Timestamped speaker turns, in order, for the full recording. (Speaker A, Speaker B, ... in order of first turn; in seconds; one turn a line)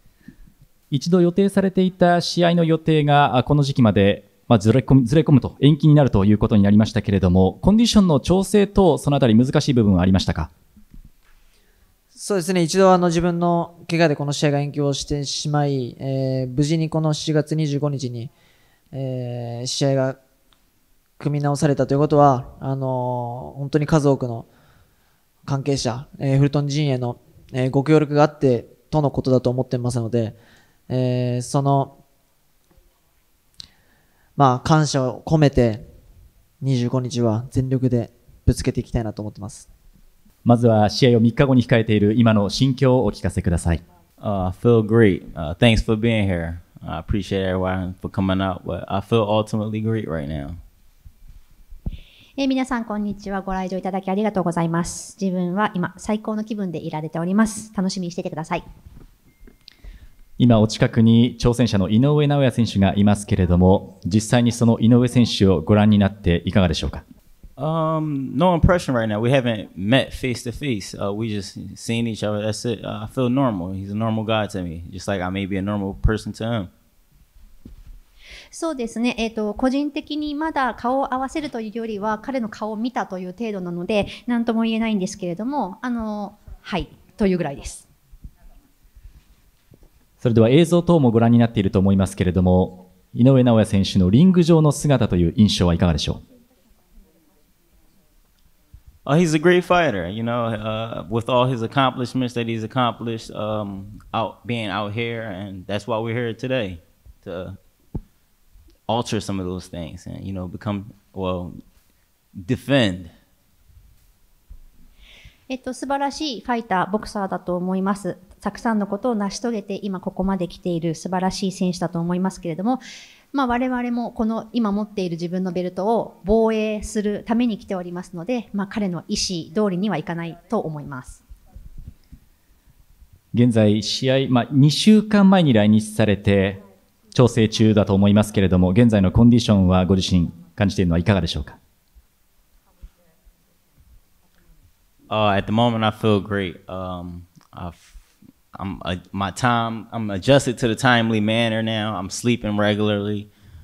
Speaker A: 0.9-10.5
Speaker B: 12.2-18.3
Speaker B: 18.9-20.2
Speaker B: 21.2-24.5
Speaker B: 25.4-30.4
Speaker B: 30.9-32.0
Speaker B: 34.4-35.9
Speaker B: 36.6-39.7
Speaker A: 40.5-43.8
Speaker C: 44.2-50.6
Speaker D: 52.4-58.6
Speaker A: 60.4-67.0
Speaker C: 67.6-76.7
Speaker D: 78.5-87.9
Speaker A: 90.2-96.2
Speaker C: 99.1-107.6
Speaker C: 108.9-111.5
Speaker C: 112.3-113.1
Speaker D: 115.5-122.8
Speaker D: 123.3-131.2
Speaker A: 133.3-136.6
Speaker A: 137.1-141.6
Speaker C: 145.1-148.0
Speaker C: 148.5-153.3